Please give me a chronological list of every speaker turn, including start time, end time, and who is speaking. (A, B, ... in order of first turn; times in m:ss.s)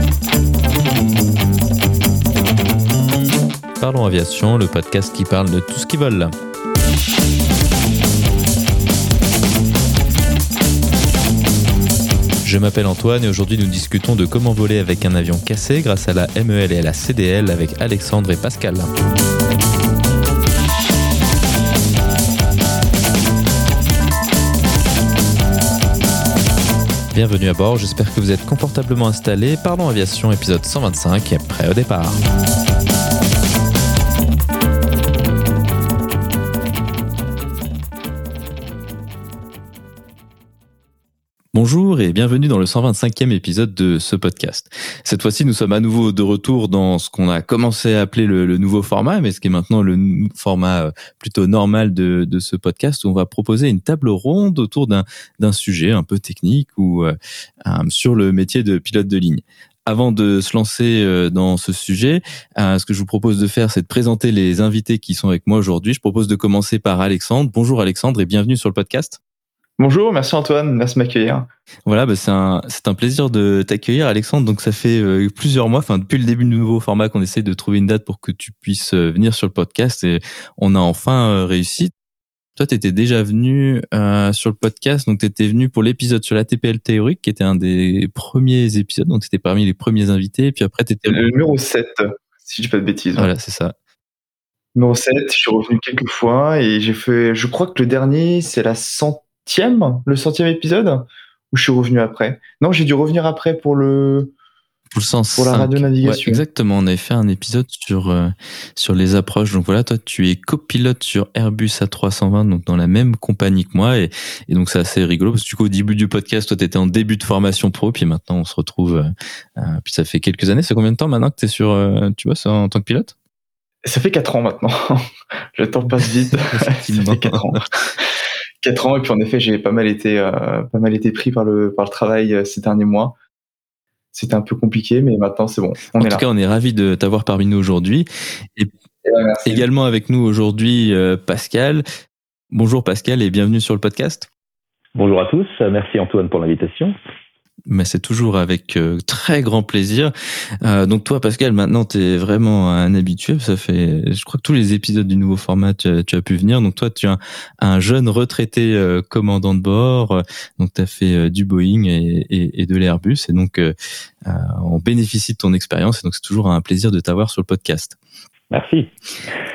0:03.8-0:06.3 A
0:12.4-0:18.9 A
0:27.1-0:32.2 A
0:41.5-0:57.1 A
0:57.6-1:09.2 A
1:09.8-1:11.5 B
1:11.9-1:21.9 A
1:22.6-1:31.2 A
1:31.1-1:33.3 B
1:33.2-1:33.8 A
1:34.8-1:44.3 B
1:44.9-2:03.2 A
1:45.4-1:46.4 B
2:03.8-2:07.6 B
2:06.6-2:07.6 A
2:08.6-2:13.2 B
2:14.1-2:16.2 B
2:16.0-2:18.7 A
2:19.0-2:19.6 B
2:19.4-2:21.8 A
2:22.5-2:24.3 A
2:25.0-2:26.9 C
2:27.7-2:30.1 A
2:30.6-2:43.7 A
2:44.2-2:48.0 A
2:48.5-2:48.9 C